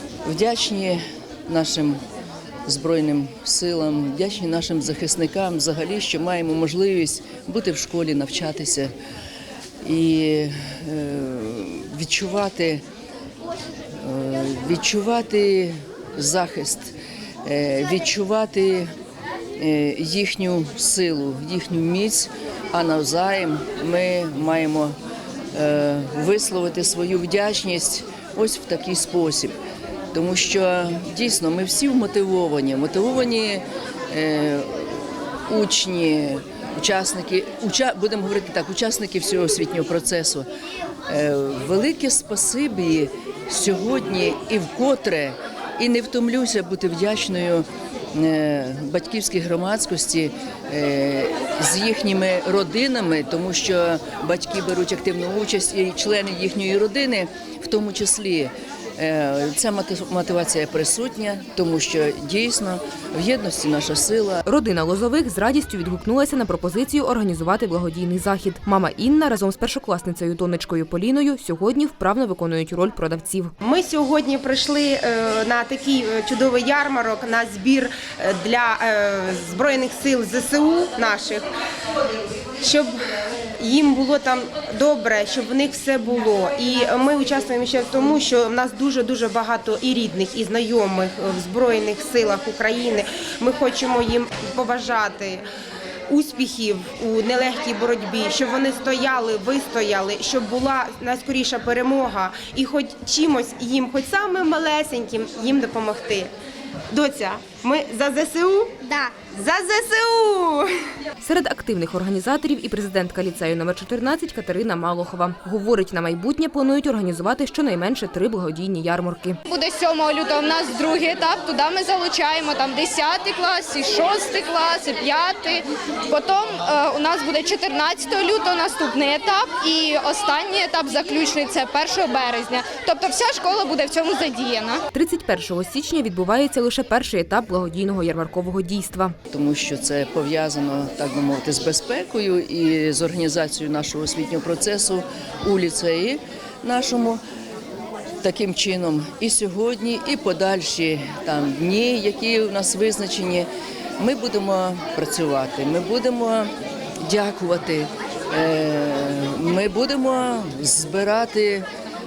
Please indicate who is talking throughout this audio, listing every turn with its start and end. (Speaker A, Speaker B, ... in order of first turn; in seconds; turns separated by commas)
Speaker A: 0.2-2.0, Speaker A: 2.6-8.9, Speaker A: 9.8-12.8, Speaker A: 14.0-16.9, Speaker A: 17.4-18.9, Speaker A: 19.6-24.9, Speaker A: 25.5-29.6, Speaker A: 30.1-40.5, Speaker A: 41.1-64.4, Speaker B: 64.5-73.5, Speaker C: 73.6-81.4, Speaker C: 82.6-82.9, Speaker C: 83.6-95.4, Speaker C: 96.1-106.3, Speaker C: 106.9-110.7, Speaker B: 111.2-119.4, Speaker D: 119.5-134.8, Speaker B: 134.9-139.1, Speaker A: 139.3-147.2, Speaker A: 148.2-156.5, Speaker A: 157.0-161.7